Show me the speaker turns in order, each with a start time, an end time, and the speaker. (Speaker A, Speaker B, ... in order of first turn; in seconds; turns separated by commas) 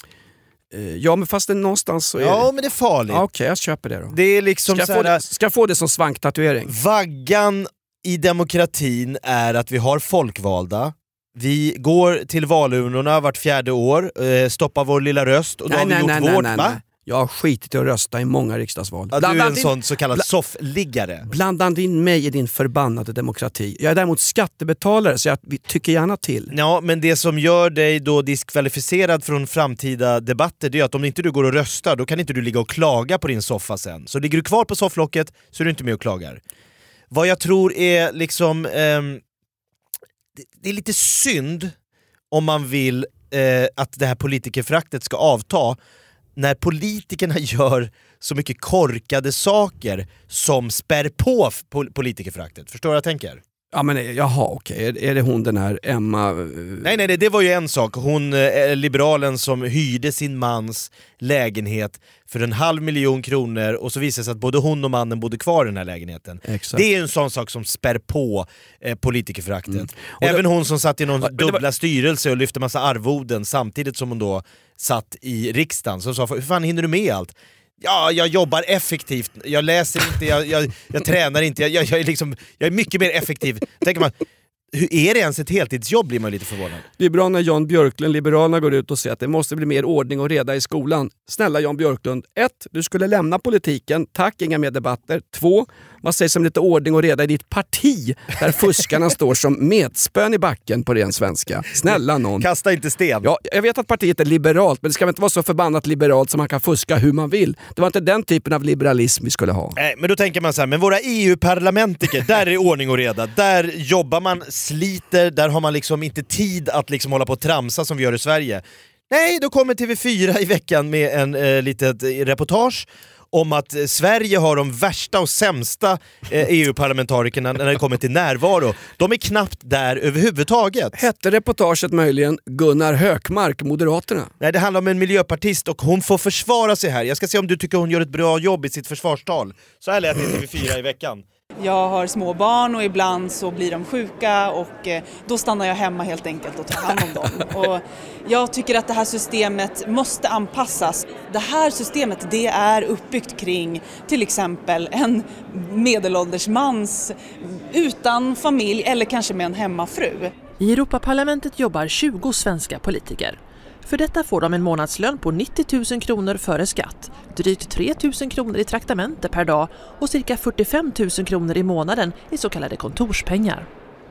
Speaker A: 0.7-2.5, Speaker B: 2.2-3.2, Speaker A: 3.1-4.2, Speaker B: 4.1-5.2, Speaker A: 4.7-6.7, Speaker B: 6.7-16.8, Speaker A: 15.7-20.2, Speaker B: 19.1-21.3, Speaker A: 21.3-26.5, Speaker B: 26.5-36.4, Speaker B: 37.1-39.2, Speaker B: 40.4-41.7, Speaker B: 42.3-45.8, Speaker B: 46.4-53.4, Speaker A: 53.7-57.0, Speaker B: 56.8-84.2, Speaker A: 66.4-66.8, Speaker A: 69.7-70.4, Speaker A: 71.2-71.6, Speaker B: 84.7-86.8, Speaker A: 87.0-102.5, Speaker B: 102.4-103.3, Speaker A: 103.2-109.8, Speaker B: 109.8-131.0, Speaker A: 130.9-134.3, Speaker B: 134.4-141.2, Speaker C: 141.6-160.3, Speaker D: 160.6-173.7